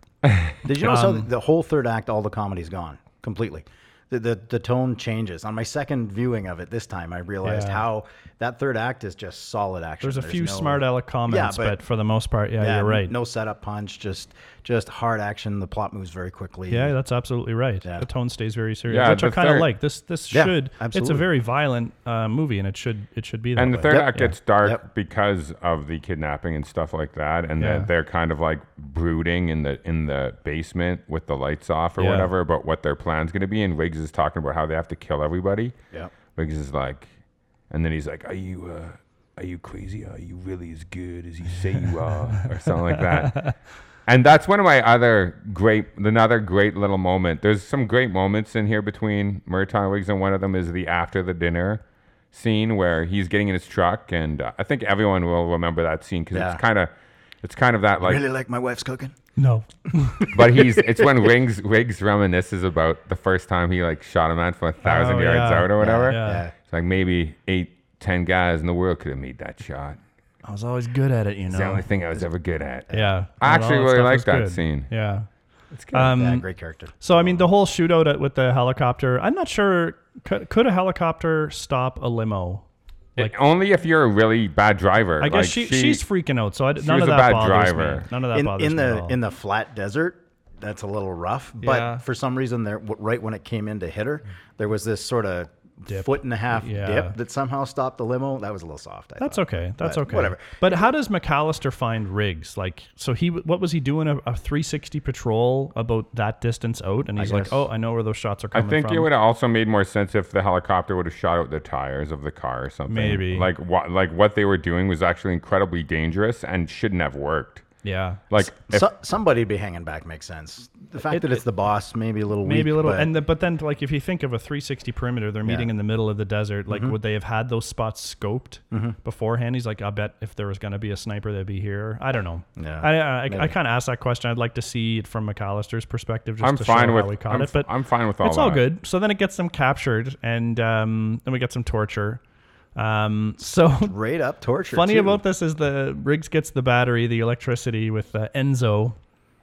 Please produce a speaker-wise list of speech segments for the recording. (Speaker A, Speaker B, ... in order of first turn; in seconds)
Speaker A: 0.6-11.8, 12.6-16.9, 20.3-21.3, 23.8-24.1, 56.3-56.6, 58.0-59.2, 60.2-61.1, 65.8-66.5, 76.1-77.5, 88.3-100.9, 107.2-107.6, 118.7-123.1, 125.4-125.7, 126.7-127.0, 132.6-133.5, 143.8-145.2
Speaker B: 0.8-1.3, 7.4-7.8, 10.0-13.1, 16.7-24.3, 27.6-27.9, 32.0-32.3, 42.9-43.5, 59.4-60.3, 64.8-66.5, 70.4-71.8, 72.9-75.3, 75.9-76.5, 77.0-82.7, 85.2-89.2, 91.6-92.0, 95.9-97.2, 99.2-109.1, 112.9-113.5, 117.8-118.2, 121.1-121.4, 122.4-137.7, 138.2-142.2, 142.8-143.9, 144.7-149.0
Speaker C: 18.9-19.7, 23.6-35.7, 36.3-37.1, 37.7-43.5, 44.1-51.8, 52.3-56.9, 57.4-58.2, 60.3-70.0, 71.5-74.9, 75.7-76.2, 83.2-86.0, 86.8-88.1, 108.5-117.6, 118.3-118.9, 136.4-138.6